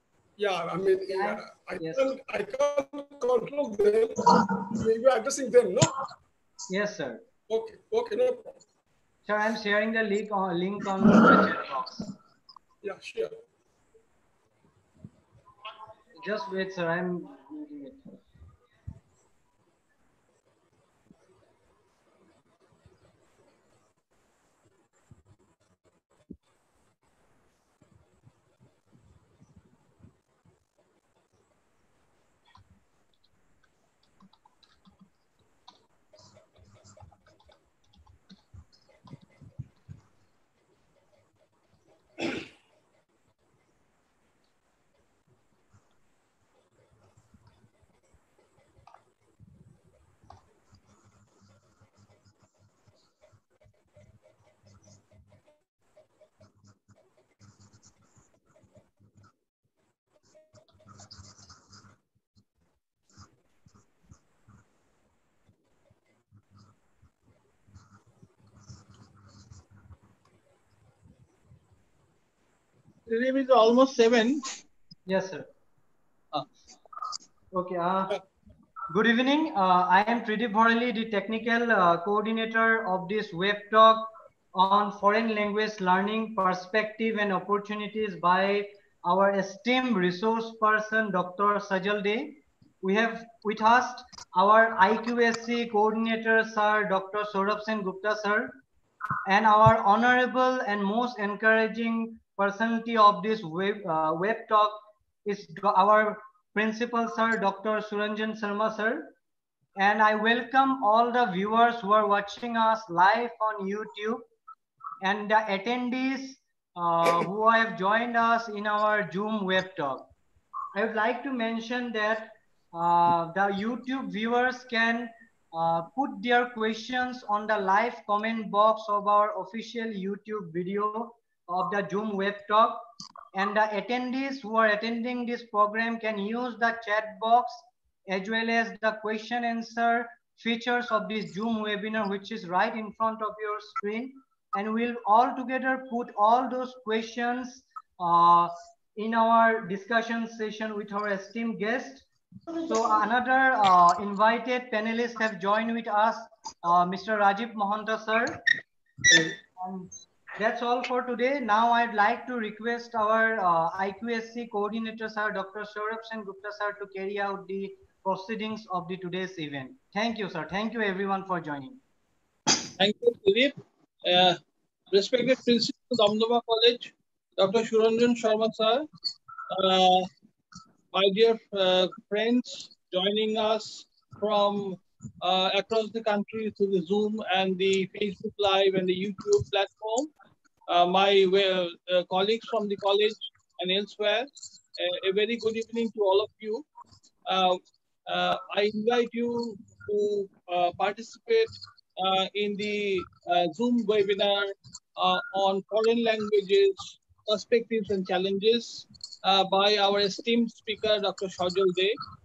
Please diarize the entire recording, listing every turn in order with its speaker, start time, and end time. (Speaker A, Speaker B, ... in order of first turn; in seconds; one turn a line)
Speaker A: 0.4-6.0
Speaker B: 1.1-2.0
Speaker B: 6.7-7.2
Speaker A: 7.5-8.6
Speaker B: 9.2-12.1
Speaker A: 12.8-13.4
Speaker B: 16.1-18.0
Speaker C: 73.1-74.5
Speaker B: 75.1-75.5
Speaker B: 77.5-78.2
Speaker B: 78.9-98.6
Speaker B: 99.2-109.1
Speaker B: 109.8-114.2
Speaker B: 115.0-120.1
Speaker B: 120.7-158.4
Speaker B: 159.6-171.8
Speaker C: 172.6-174.4
Speaker C: 174.9-178.9
Speaker C: 179.5-180.1
Speaker C: 180.9-190.1
Speaker C: 190.7-196.6
Speaker C: 197.2-212.0